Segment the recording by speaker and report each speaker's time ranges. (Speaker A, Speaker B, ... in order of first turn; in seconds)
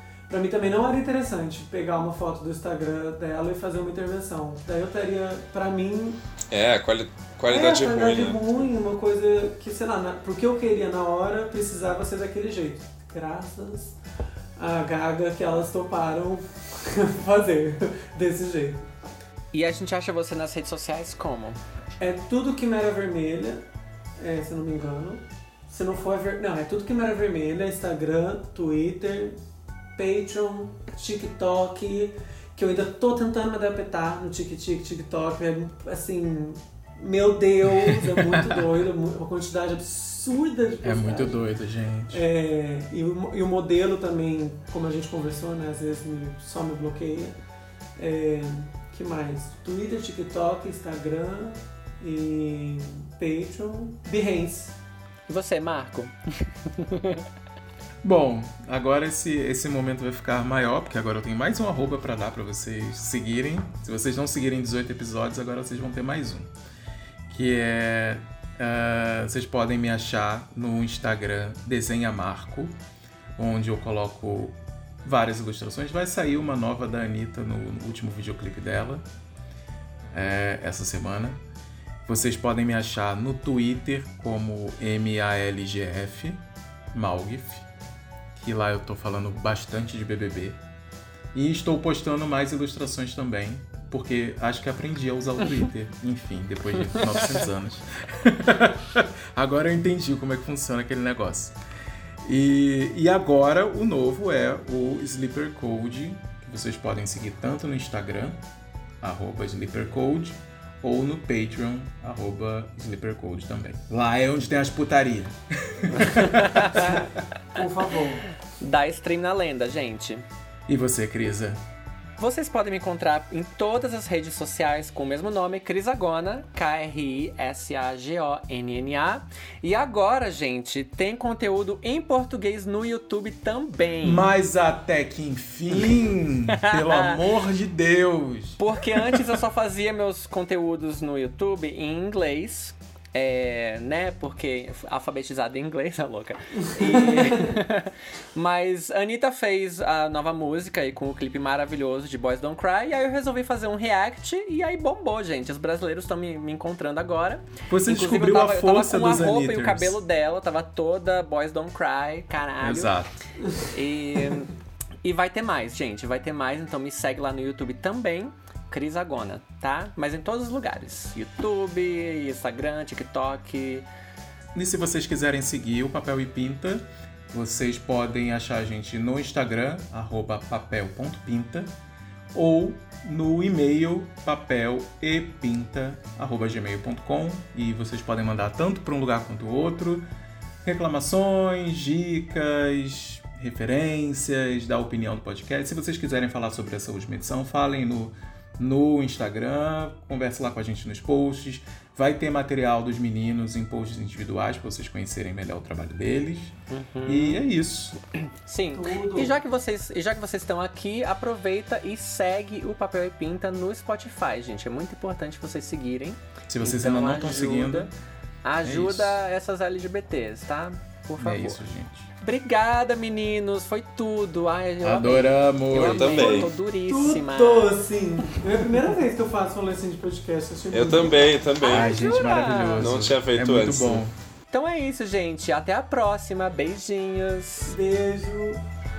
Speaker A: 0.3-6.2, 7.5-14.0, 14.6-18.9, 22.0-23.6, 24.2-29.4, 29.9-41.4, 42.1-47.4, 48.0-54.8, 116.7-118.2, 146.6-147.5, 208.7-209.3, 226.2-231.4, 237.7-238.6
Speaker B: 6.5-8.4, 225.7-226.5, 230.7-231.9, 232.8-234.1
Speaker C: 19.5-21.6, 55.3-57.2, 116.0-117.1, 118.6-120.2, 122.2-134.3, 136.5-137.2, 138.6-162.9, 163.7-164.5, 165.0-173.9, 206.7-207.4, 208.4-217.9, 218.4-221.6, 222.2-227.8, 231.6-232.9, 234.5-237.7
Speaker D: 37.8-38.7, 40.8-42.2, 58.0-66.5, 67.3-72.8, 73.4-79.0, 80.1-81.4, 82.1-86.4, 86.9-87.7, 88.3-90.6, 91.3-101.5, 102.2-108.4, 109.0-116.8, 120.7-121.6, 134.0-139.3, 157.7-160.0, 162.6-163.1, 174.5-181.7, 182.3-190.1, 190.6-206.6, 207.1-208.0, 216.5-217.9, 218.6-219.2, 221.2-222.1, 224.8-226.3, 231.7-234.1